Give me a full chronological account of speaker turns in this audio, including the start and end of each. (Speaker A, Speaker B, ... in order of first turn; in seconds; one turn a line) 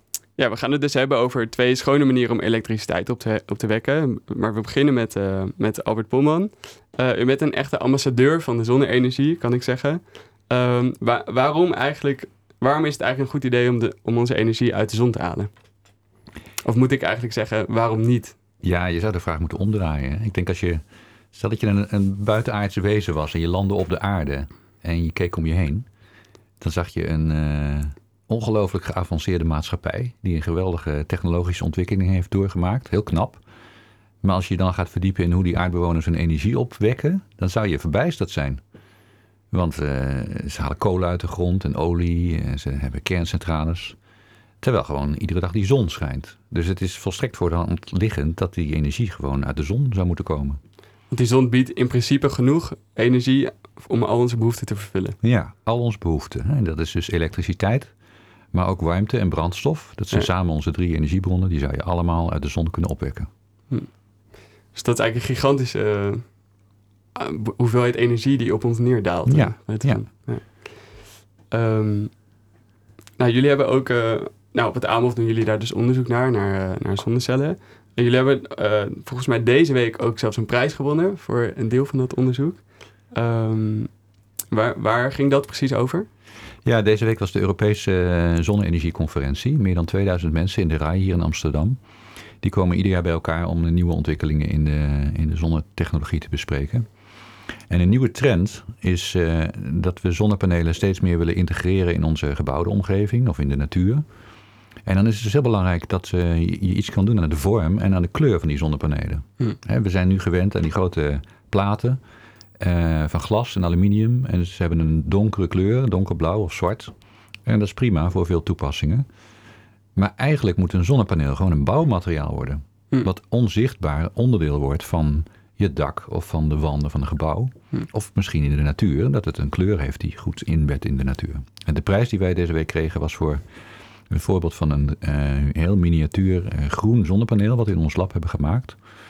Speaker A: 0.4-15.5
Speaker A: 16.6-18.4
Speaker B: 18.6-20.8
Speaker B: 21.3-25.9
Speaker B: 26.6-33.4
Speaker B: 34.2-38.6
Speaker B: 39.5-44.0
Speaker B: 44.6-50.6
Speaker A: 51.1-55.2
Speaker B: 55.2-57.9
Speaker B: 58.5-63.3
Speaker A: 63.7-66.5
Speaker A: 67.2-72.2
Speaker B: 69.3-70.1
Speaker A: 73.2-84.0
Speaker A: 84.5-86.1
Speaker B: 86.7-91.8
Speaker B: 92.4-96.9
Speaker B: 97.7-104.0
Speaker B: 104.9-112.0
Speaker B: 112.6-116.9
Speaker B: 117.5-119.1
Speaker B: 120.0-133.4
Speaker B: 134.1-138.8